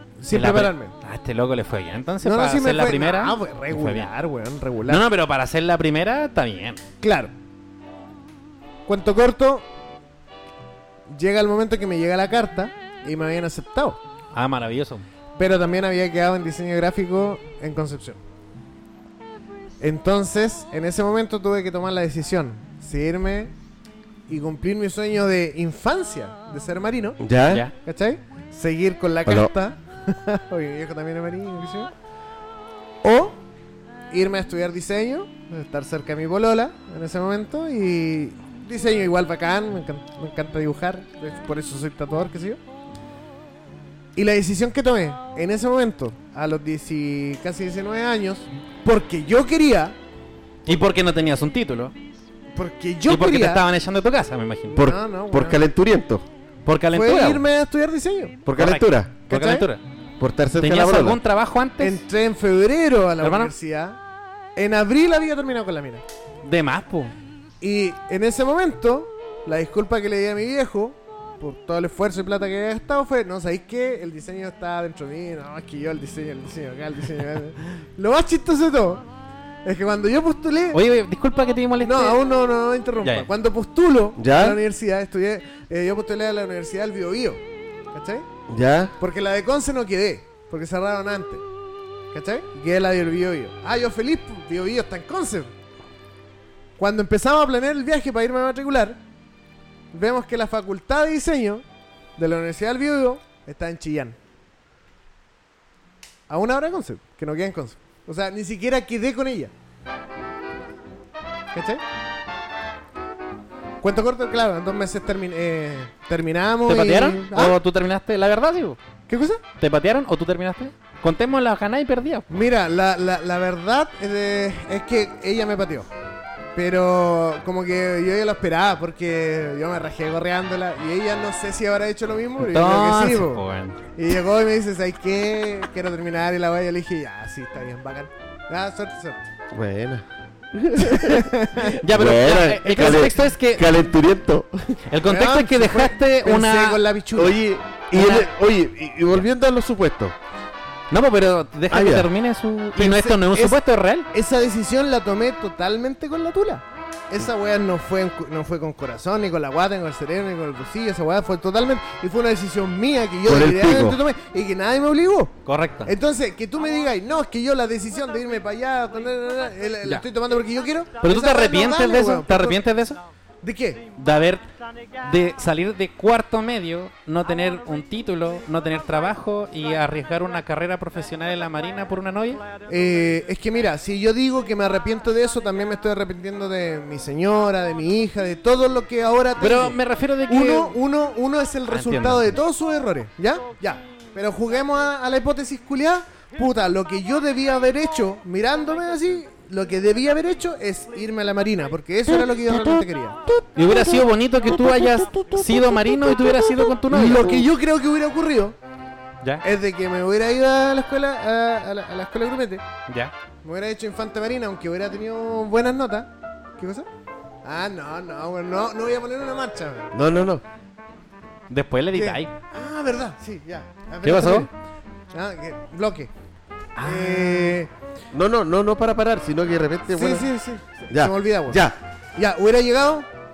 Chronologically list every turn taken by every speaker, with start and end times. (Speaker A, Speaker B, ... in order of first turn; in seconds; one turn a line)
Speaker A: 0.2-0.9
Speaker B: 0.3-4.1
Speaker A: 2.2-5.0
Speaker B: 4.9-6.8
Speaker A: 7.0-7.3
Speaker A: 8.9-9.7
Speaker A: 11.1-14.0
Speaker B: 14.3-15.1
Speaker A: 15.4-18.2
Speaker A: 19.8-23.5
Speaker A: 24.3-27.2
Speaker C: 27.2-27.7
Speaker A: 27.7-31.9
Speaker C: 29.2-29.5
Speaker A: 33.0-33.4
Speaker A: 34.1-42.6
Speaker A: 44.1-50.0
Speaker B: 50.7-52.0
Speaker A: 52.5-53.6
Speaker B: 53.1-54.9
Speaker C: 54.7-56.2
Speaker A: 54.8-55.6
Speaker B: 56.6-57.4
Speaker A: 56.9-58.4
Speaker C: 58.5-59.2
Speaker B: 58.5-59.8
Speaker A: 59.3-59.7
Speaker C: 60.2-61.2
Speaker B: 60.6-62.0
Speaker A: 61.8-64.0
Speaker B: 63.2-63.5
Speaker A: 64.6-66.0
Speaker B: 66.4-67.1
Speaker A: 67.6-79.1
Speaker A: 79.6-80.8
Speaker B: 80.7-82.2
Speaker A: 81.8-87.4
Speaker C: 84.2-84.6
Speaker A: 87.9-88.3
Speaker C: 88.5-89.0
Speaker A: 89.0-91.5
Speaker A: 92.1-95.5
Speaker A: 96.8-99.0
Speaker A: 99.9-101.6
Speaker A: 102.2-104.2
Speaker A: 106.3-109.5
Speaker A: 111.5-111.8
Speaker A: 113.8-117.6
Speaker B: 116.6-118.8
Speaker A: 119.1-119.4
Speaker B: 119.6-122.3
Speaker A: 122.3-125.9
Speaker A: 126.5-133.4
Speaker B: 132.4-133.8
Speaker A: 133.9-139.2
Speaker C: 139.5-144.8
Speaker A: 140.8-141.8
Speaker B: 141.8-143.8
Speaker B: 144.9-146.8
Speaker A: 145.0-147.3
Speaker C: 147.2-150.2
Speaker B: 147.9-148.3
Speaker B: 150.9-154.1
Speaker C: 151.7-152.1
Speaker A: 152.8-153.6
Speaker A: 154.1-172.6
Speaker C: 163.2-164.0
Speaker B: 165.4-165.9
Speaker B: 171.0-173.0
Speaker A: 173.4-173.8
Speaker B: 174.0-174.4
Speaker B: 175.0-182.4
Speaker A: 182.7-203.2
Speaker B: 189.4-190.8
Speaker B: 191.7-192.3
Speaker B: 203.6-207.4
Speaker C: 203.7-204.0
Speaker C: 204.6-206.6
Speaker A: 206.9-208.6
Speaker A: 209.4-212.6
Speaker B: 212.9-213.1
Speaker A: 213.4-216.9
Speaker A: 217.4-219.9
Speaker C: 219.9-220.4
Speaker B: 221.5-222.3
Speaker A: 221.9-224.5
Speaker B: 224.0-224.5
Speaker A: 225.1-226.1
Speaker B: 226.8-227.6
Speaker A: 226.8-227.7
Speaker C: 228.1-230.3
Speaker A: 229.9-233.1
Speaker C: 230.9-231.8